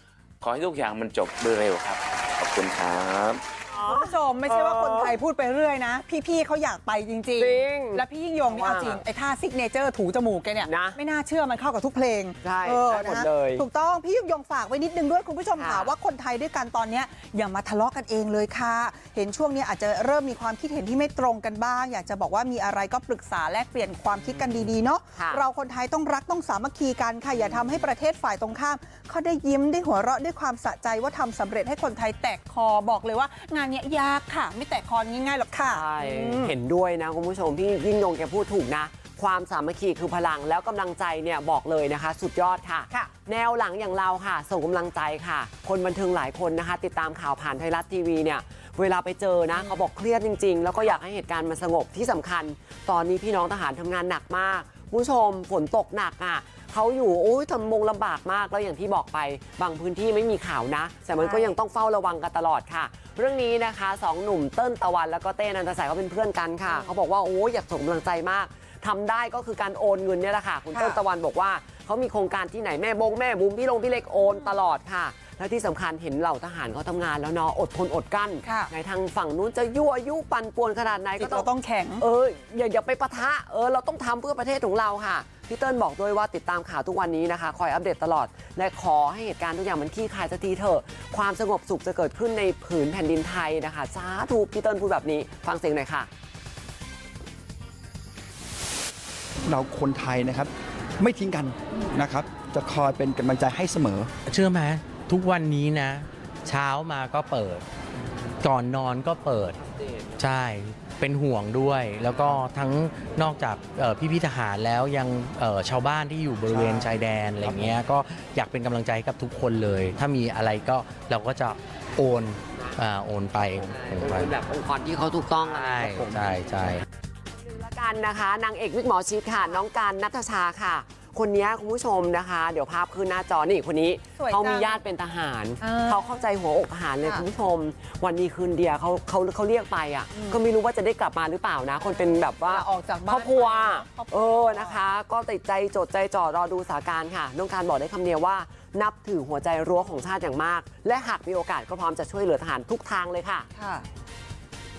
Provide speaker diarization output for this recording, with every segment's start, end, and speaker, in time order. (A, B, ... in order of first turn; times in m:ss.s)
0:00.4-0:03.4 A
0:03.7-0:05.2 B
0:03.8-0:36.6 C
0:07.4-0:09.0 B
0:10.6-0:11.0 B
0:12.4-0:13.6 B
0:15.6-0:15.9 B
0:24.2-0:25.4 B
0:27.3-0:27.9 B
0:35.6-1:36.1 B
1:01.2-1:01.6 C
1:06.7-1:06.9 C
1:10.7-1:11.0 C
1:14.2-1:14.5 C
1:18.4-1:18.7 C
1:21.2-1:22.0 C
1:39.4-1:44.1 D
1:44.3-1:47.6 E
1:48.4-1:49.6 E
1:50.2-2:04.3 E
1:56.5-1:57.7 D
2:03.6-2:06.3 B
2:05.4-2:06.8 E
2:07.3-2:33.5 B
2:14.2-2:14.8 C
2:15.6-2:16.2 C
2:20.1-2:20.4 C
2:22.4-2:24.8 C
2:33.6-2:33.8 C